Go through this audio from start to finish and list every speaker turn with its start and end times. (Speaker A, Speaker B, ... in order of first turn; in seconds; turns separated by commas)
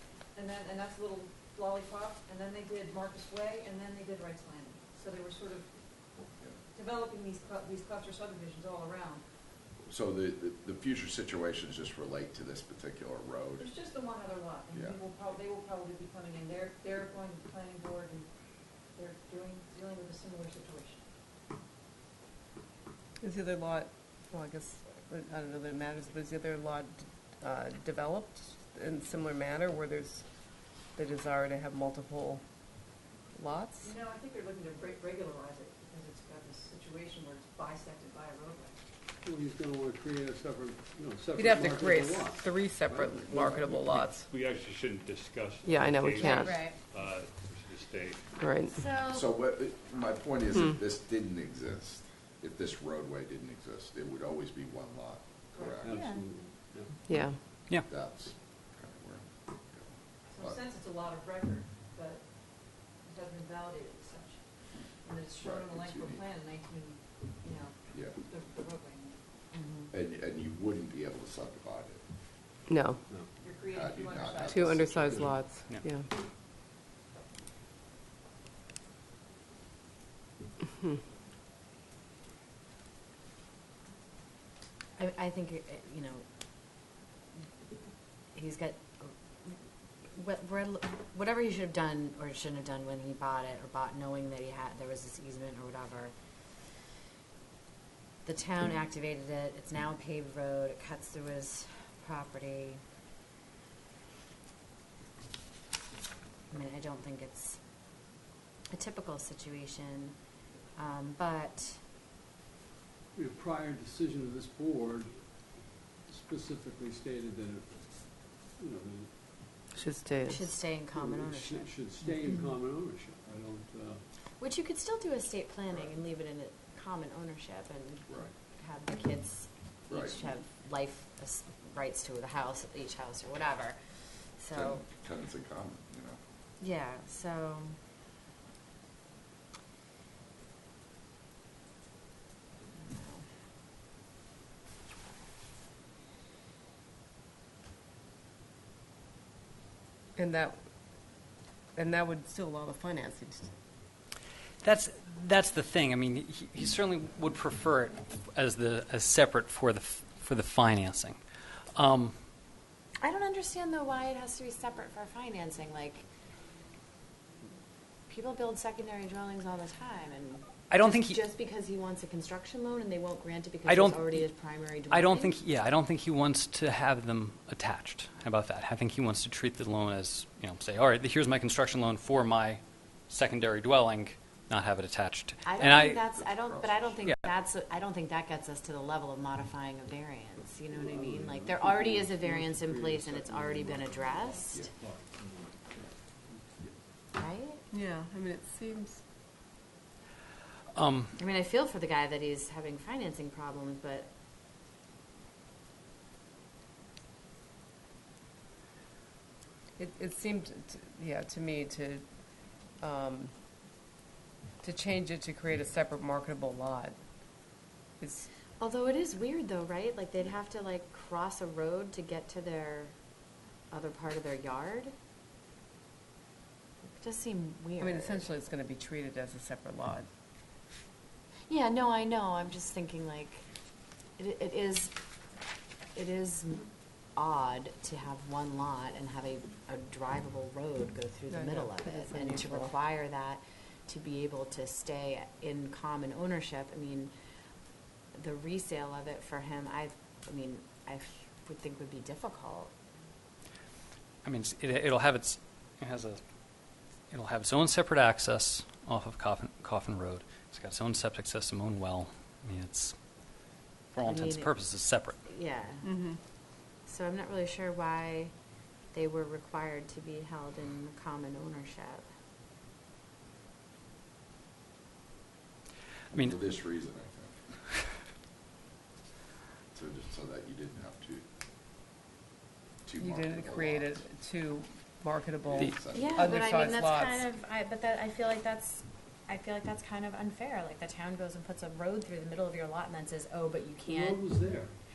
Speaker A: 0.3-5.7, Speaker A: 6.7-9.2, Speaker B: 9.9-13.7, Speaker A: 13.6-18.3, Speaker A: 18.9-21.0, Speaker C: 23.2-30.2, Speaker C: 30.9-32.4, Speaker C: 33.3-33.9, Speaker A: 33.8-38.8, Speaker D: 39.2-44.2, Speaker C: 41.4-44.3, Speaker E: 44.5-46.2, Speaker D: 45.3-45.8, Speaker C: 45.6-46.6, Speaker F: 46.2-46.8, Speaker D: 46.3-48.1, Speaker E: 47.0-47.7, Speaker C: 48.4-48.7, Speaker F: 48.7-49.2, Speaker B: 49.1-56.1, Speaker D: 55.8-57.1, Speaker F: 55.9-56.2, Speaker C: 57.1-57.4, Speaker B: 57.8-60.6, Speaker A: 60.3-62.3, Speaker A: 62.9-64.4, Speaker A: 65.0-69.2, Speaker B: 65.4-66.2, Speaker F: 69.5-69.9, Speaker B: 69.9-72.0, Speaker C: 72.7-73.0, Speaker A: 73.4-74.9, Speaker B: 73.7-75.4, Speaker C: 74.5-76.1, Speaker D: 75.0-75.4, Speaker F: 85.0-86.2, Speaker F: 88.3-89.5, Speaker F: 90.1-96.1, Speaker F: 98.2-102.8, Speaker F: 106.5-107.6, Speaker F: 108.7-110.1, Speaker F: 110.8-111.8, Speaker D: 113.1-115.4, Speaker D: 116.1-119.1, Speaker C: 119.8-120.4, Speaker F: 120.3-121.7, Speaker D: 120.9-124.0, Speaker F: 124.4-133.8, Speaker B: 129.9-130.2, Speaker F: 134.4-134.8, Speaker B: 134.5-136.2, Speaker F: 136.6-137.8, Speaker F: 142.7-143.2, Speaker C: 150.2-150.6, Speaker C: 151.7-153.5, Speaker G: 154.6-161.2, Speaker G: 161.7-162.1, Speaker F: 163.0-166.0, Speaker F: 168.1-175.4, Speaker G: 170.7-171.2, Speaker G: 173.7-174.3, Speaker G: 174.9-186.0, Speaker F: 185.4-194.5, Speaker B: 186.0-187.1, Speaker D: 190.7-196.7, Speaker F: 197.1-197.6, Speaker C: 197.7-199.0, Speaker G: 200.7-201.1, Speaker F: 201.2-204.1, Speaker C: 209.8-212.0, Speaker C: 212.8-213.3, Speaker C: 214.6-217.0, Speaker C: 218.0-218.3, Speaker F: 218.6-222.9, Speaker F: 223.7-224.9, Speaker F: 226.9-228.3, Speaker C: 227.8-230.1, Speaker F: 231.5-233.4, Speaker F: 234.2-234.9, Speaker F: 235.9-247.1, Speaker C: 241.5-242.7, Speaker F: 248.1-252.7, Speaker G: 254.2-256.2, Speaker G: 257.1-262.9, Speaker G: 263.9-265.1, Speaker F: 264.0-264.5, Speaker F: 265.2-265.9, Speaker F: 266.9-268.3, Speaker F: 268.9-272.0, Speaker B: 276.1-277.5, Speaker B: 279.7-281.2, Speaker B: 282.9-284.0, Speaker C: 283.0-287.2, Speaker B: 285.6-286.4, Speaker F: 285.9-294.2, Speaker D: 293.8-294.7